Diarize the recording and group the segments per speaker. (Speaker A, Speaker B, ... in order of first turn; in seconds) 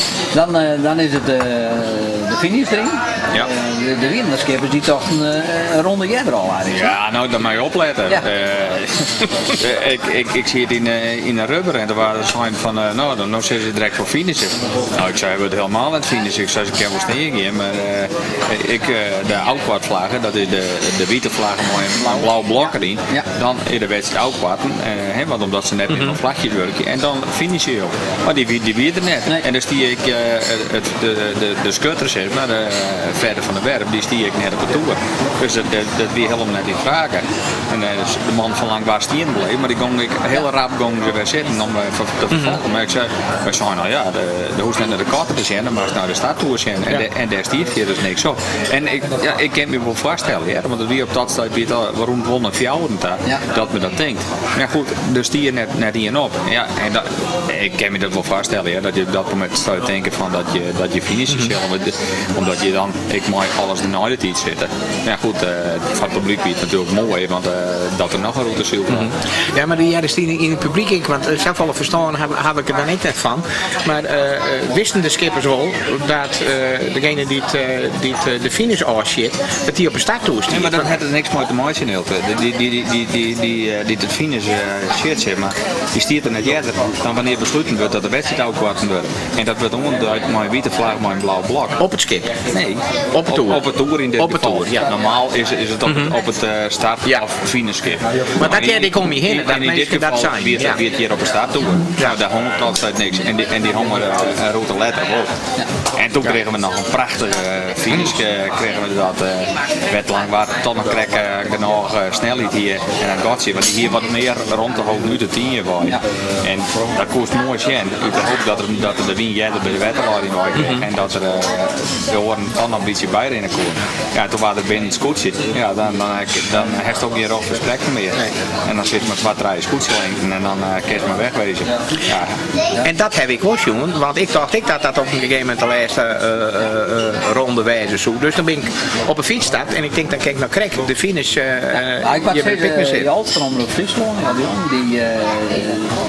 Speaker A: 0.3-7.0, 142.0-145.9
Speaker B: 6.7-69.1, 80.5-91.8, 92.5-105.3, 106.0-132.4
Speaker C: 42.3-42.6, 68.9-80.9, 91.8-92.3, 93.1-94.9, 95.8-96.1, 98.4-100.8, 132.8-143.1